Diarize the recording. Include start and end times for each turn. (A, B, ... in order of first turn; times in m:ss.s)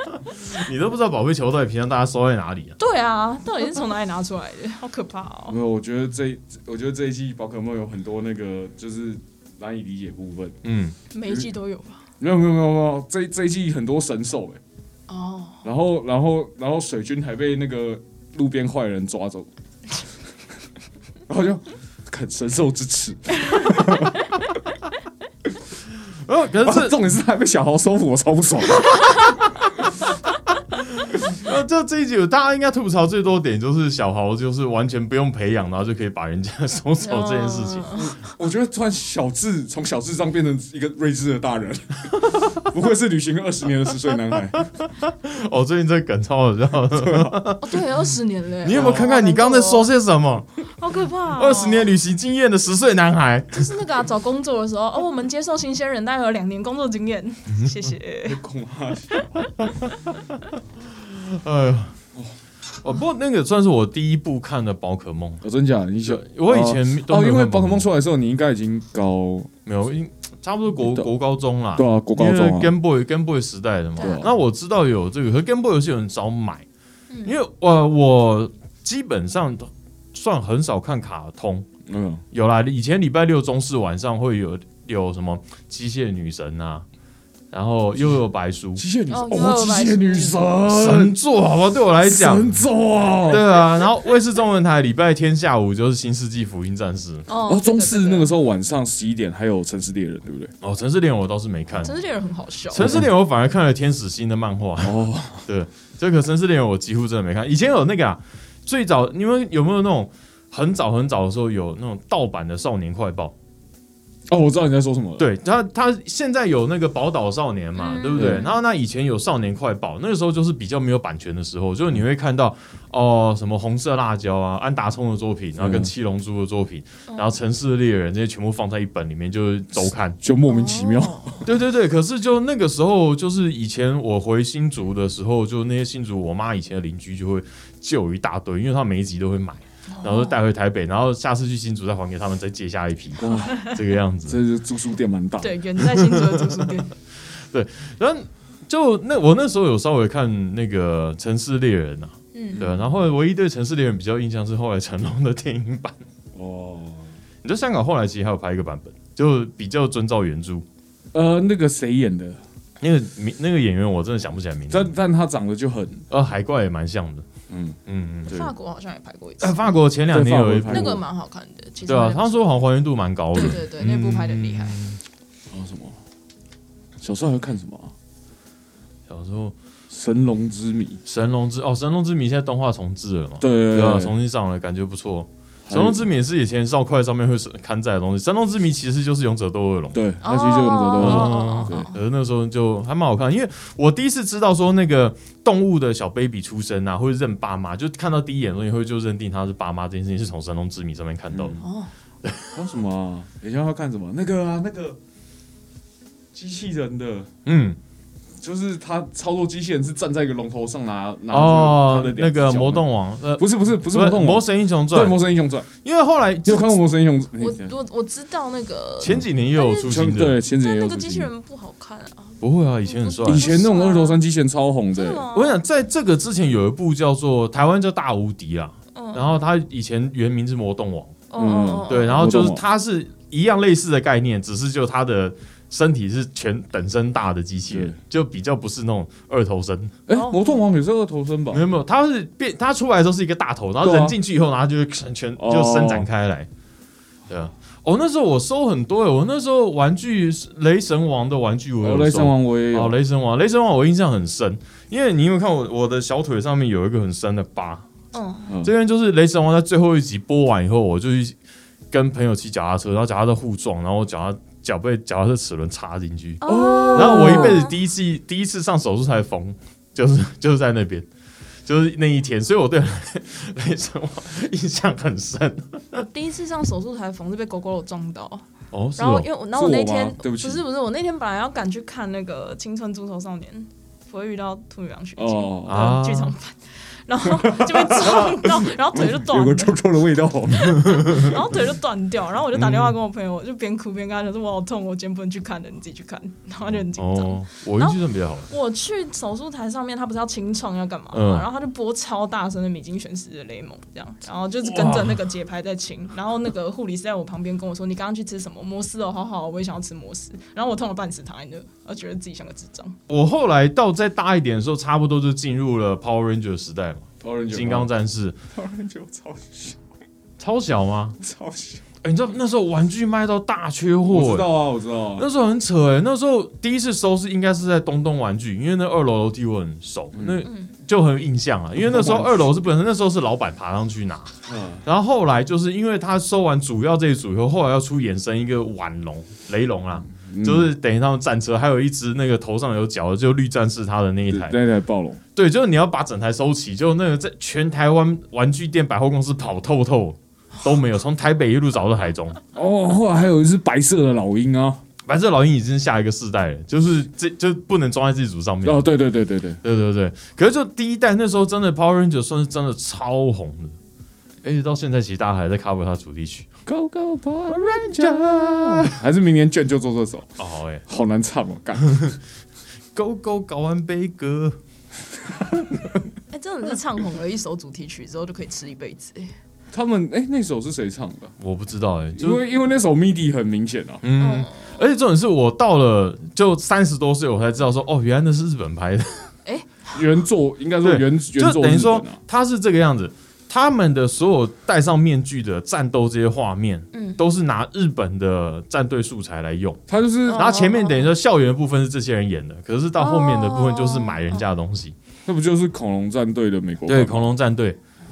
0:00.4-0:02.8 A
0:02.8-0:05.6 B
0:05.5-0:10.6 C
0:10.6-0:11.0 A
0:11.1-0:12.0 B
0:12.2-0:14.6 C
0:15.1-0:15.6 B
0:15.6-0:19.5 C
0:21.3-0:24.2 C
0:26.2-0:27.0 A
0:26.6-0:29.2 C
0:31.0-0:37.9 A
0:37.0-0:38.2 B
0:37.9-0:44.6 C
0:44.6-0:47.8 A
0:46.9-0:47.4 C
0:47.6-0:49.9 B
0:48.6-0:50.6 A
0:48.7-0:49.1 C
0:50.8-0:51.9 B
0:51.3-0:53.7 A
0:53.5-0:58.4 B
0:58.2-0:59.5 C
1:01.0-1:02.0 A
1:02.8-1:05.4 A
1:05.4-1:09.5 C
1:06.0-1:07.9 A
1:09.6-1:16.6 A
1:10.8-1:11.1 C
1:11.8-1:12.7 C
1:14.0-1:14.3 B
1:14.0-1:14.3 C
1:17.2-1:21.7 A
1:21.9-1:22.2 C
1:22.3-1:26.8 A
1:27.5-1:28.8 A
1:28.8-1:31.2 C
1:29.1-1:30.4 B
1:30.7-1:32.6 A
1:32.0-1:33.4 C
1:33.3-1:37.2 A
1:37.3-1:38.3 B
1:37.5-1:40.5 C
1:40.6-1:41.9 A
1:41.8-1:43.0 B
1:42.7-1:53.3 A
1:42.8-1:43.1 C
1:44.8-1:45.4 C
1:54.3-1:55.3 C
1:55.2-2:10.2 A
1:57.8-1:58.6 B
1:58.1-1:58.4 C
2:05.6-2:05.9 C
2:07.1-2:07.3 B
2:10.2-2:11.4 C
2:10.5-2:11.4 B
2:11.4-2:24.4 A
2:19.9-2:20.4 B
2:23.2-2:23.7 C
2:24.3-2:25.6 C
2:25.4-2:26.9 B
2:25.9-2:26.7 A
2:27.5-2:36.0 A
2:32.3-2:32.6 B
2:32.6-2:32.8 C
2:36.3-2:37.1 C
2:37.4-2:40.6 A
2:41.1-2:42.4 C
2:42.8-2:44.9 A
2:44.7-2:46.0 C
2:46.1-2:47.2 A
2:47.5-2:47.8 C
2:47.9-2:48.4 A
2:48.3-2:49.8 B
2:49.4-2:51.0 A
2:50.1-2:51.0 C
2:50.7-2:52.4 B
2:51.8-2:55.0 A
2:53.3-2:54.8 B
2:55.5-2:56.0 C
2:57.0-2:57.9 C
2:59.1-2:59.5 A
2:59.9-3:01.0 C
3:01.1-3:10.0 A
3:03.4-3:04.1 C
3:05.7-3:06.0 C
3:09.9-3:11.9 C
3:10.2-3:12.0 B
3:11.0-3:21.6 A
3:21.3-3:21.6 C
3:21.6-3:21.9 B
3:22.2-3:22.6 A
3:22.5-3:25.0 C
3:26.3-3:27.3 C
3:27.4-3:27.8 A
3:28.4-3:32.8 C
3:31.3-3:35.2 A
3:33.4-3:35.7 C
3:35.8-3:36.8 A
3:36.4-3:37.7 C
3:37.4-3:39.9 B
3:39.0-3:40.4 A
3:39.8-3:41.3 C
3:40.5-3:44.2 B
3:42.4-3:43.6 A
3:43.2-3:45.2 C
3:44.9-3:45.6 B
3:45.3-3:51.2 A
3:48.9-3:49.3 B
3:51.3-3:52.3 B
3:51.4-3:52.6 C
3:51.9-4:00.0 A
3:57.7-3:58.0 C
4:00.1-4:01.6 C
4:00.1-4:00.5 B
4:01.5-4:06.5 A
4:03.8-4:04.2 C
4:05.4-4:06.1 C
4:07.3-4:17.8 A
4:11.8-4:13.0 C
4:18.1-4:18.5 B
4:18.6-4:21.4 A
4:21.9-4:26.4 A
4:26.4-4:27.7 B
4:26.4-4:27.6 C
4:26.9-4:31.0 A
4:31.6-4:36.0 A
4:35.9-4:49.8 B
4:38.7-4:39.3 A
4:39.5-4:40.6 C
4:45.2-4:45.8 C
4:45.7-4:46.3 A
4:47.3-4:51.2 C
4:50.5-5:13.0 B
4:52.5-4:52.9 A
4:57.0-4:58.5 A
5:01.1-5:01.5 A
5:04.6-5:05.2 A
5:13.1-5:18.4 A
5:17.2-5:17.9 C
5:18.5-5:19.9 C
5:20.4-5:21.2 A
5:21.2-5:21.8 C
5:22.0-5:24.5 A
5:24.1-5:25.3 C
5:25.2-5:34.3 A
5:30.1-5:30.4 C
5:30.4-5:30.7 B
5:31.8-5:32.7 C
5:34.4-5:34.8 C
5:34.8-5:44.6 A
5:40.1-5:40.7 C
5:44.3-5:45.2 C
5:45.4-5:52.4 A
5:52.5-5:54.8 C
5:55.0-5:58.8 A
5:58.6-5:59.6 C
5:59.6-6:03.8 A
6:04.4-6:06.5 A
6:06.6-6:10.3 C
6:07.5-6:09.0 A
6:10.4-6:10.8 A
6:10.9-6:12.1 C
6:11.8-6:12.1 A
6:12.9-6:14.6 A
6:16.3-6:19.3 B
6:19.7-6:21.3 C
6:21.4-6:22.4 A
6:22.1-6:24.0 C
6:24.0-6:29.3 A
6:24.2-6:24.7 B
6:29.4-6:30.0 B
6:29.9-6:32.2 C
6:30.8-6:39.8 A
6:36.9-6:37.2 B
6:39.9-6:40.5 C
6:40.3-6:41.1 B
6:40.3-6:45.0 A
6:43.0-6:44.4 B
6:45.2-6:47.3 C
6:46.9-6:47.8 A